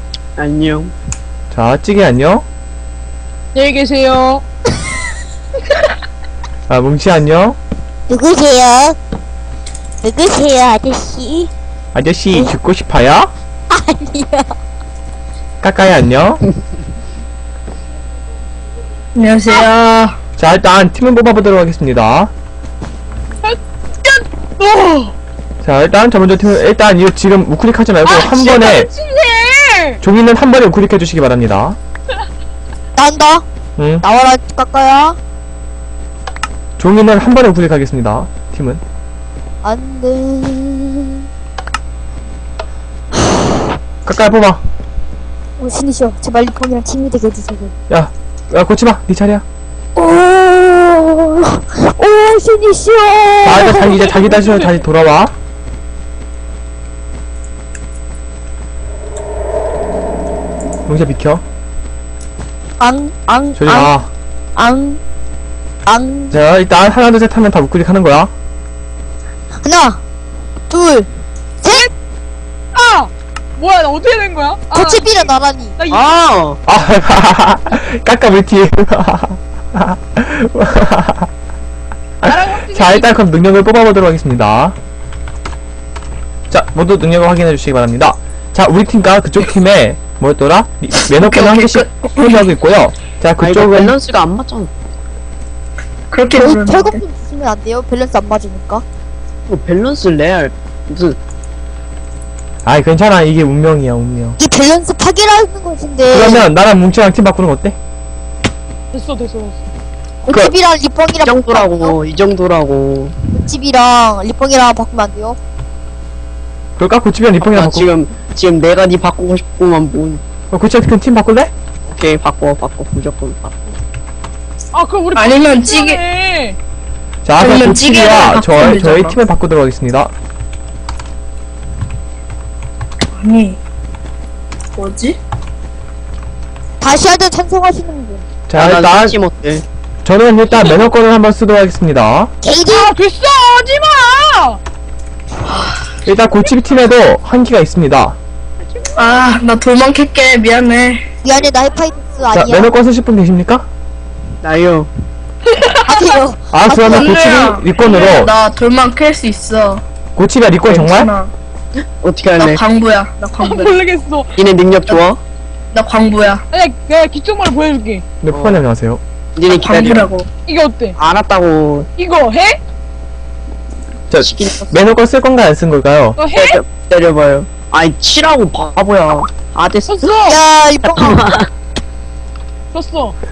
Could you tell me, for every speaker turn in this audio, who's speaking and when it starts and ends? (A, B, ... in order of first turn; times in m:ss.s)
0:00.4-0:00.9 A
0:01.5-0:02.5 B
0:03.6-0:04.4 C
0:06.7-0:07.6 B
0:08.1-0:09.0 D
0:10.0-0:11.5 D
0:11.9-0:13.3 B
0:13.7-0:14.5 D
0:15.6-0:16.4 B
0:19.2-0:20.2 E
0:20.4-0:22.3 B
0:23.4-0:25.1 C
0:25.6-0:28.9 B
0:28.0-0:30.0 C
0:30.0-0:31.8 B
0:33.0-0:33.4 D
0:33.8-0:34.0 B
0:34.0-0:35.2 D
0:36.8-0:38.8 B
0:39.6-0:41.2 D
0:44.1-0:44.6 B
0:45.6-0:47.7 D
0:47.9-0:49.4 B
0:50.0-0:54.0 D
0:53.4-0:55.4 B
1:00.9-1:01.4 B
1:02.8-1:03.9 D
1:03.6-1:04.1 B
1:04.6-1:05.0 D
1:05.9-1:06.4 D
1:06.3-1:08.3 B
1:09.6-1:10.0 D
1:10.7-1:11.1 D
1:11.6-1:11.9 D
1:12.8-1:16.1 C
1:14.7-1:15.8 D
1:15.9-1:16.6 A
1:16.6-1:21.3 B
1:22.2-1:24.8 B
1:22.2-1:23.2 C
1:26.5-1:34.0 B
1:31.1-1:32.4 E
1:33.4-1:34.7 A
1:36.1-1:37.0 E
1:36.4-1:38.8 D
1:39.5-1:41.2 A
1:42.6-1:44.4 B
1:44.4-1:46.4 D
1:46.1-1:47.8 B
1:46.2-1:46.5 A
1:48.9-1:49.7 C
1:50.3-1:52.0 D
1:50.3-1:50.6 A
1:51.2-1:53.2 A
1:53.3-1:55.4 D
1:56.8-1:57.9 B
1:57.4-2:00.2 A
2:00.5-2:01.5 B
2:01.9-2:03.5 A
2:04.7-2:06.6 C
2:05.2-2:06.0 E
2:07.2-2:10.1 B
2:07.4-2:09.2 E
2:13.2-2:13.6 E
2:14.8-2:15.2 E
2:16.8-2:18.3 D
2:18.5-2:19.2 B
2:18.6-2:19.6 A
2:20.0-2:22.3 B
2:22.4-2:22.9 D
2:22.7-2:24.6 C
2:26.0-2:28.2 B
2:29.0-2:31.0 E
2:31.2-2:32.8 D
2:32.3-2:33.7 B
2:34.4-2:34.9 A
2:35.6-2:36.1 C
2:35.9-2:37.2 D
2:36.5-2:38.3 B
2:36.9-2:39.8 E
2:40.2-2:41.1 B
2:40.7-2:41.3 E
2:42.0-2:42.6 A
2:42.4-2:43.8 E
2:43.4-2:44.3 C
2:44.4-2:45.2 A
2:45.7-2:46.4 E
2:46.5-2:48.0 C
2:48.2-2:49.0 B
2:48.3-2:48.6 A
2:49.4-2:50.1 A
2:49.5-2:50.3 E
2:50.5-2:51.0 C
2:51.0-2:51.9 A
2:52.0-2:52.6 C
2:54.1-2:56.2 B
2:54.2-2:54.8 A
2:56.2-2:56.6 C
2:56.3-3:00.1 A
2:59.9-3:00.4 C
3:00.3-3:01.3 D
3:01.0-3:01.5 A
3:02.7-3:03.2 C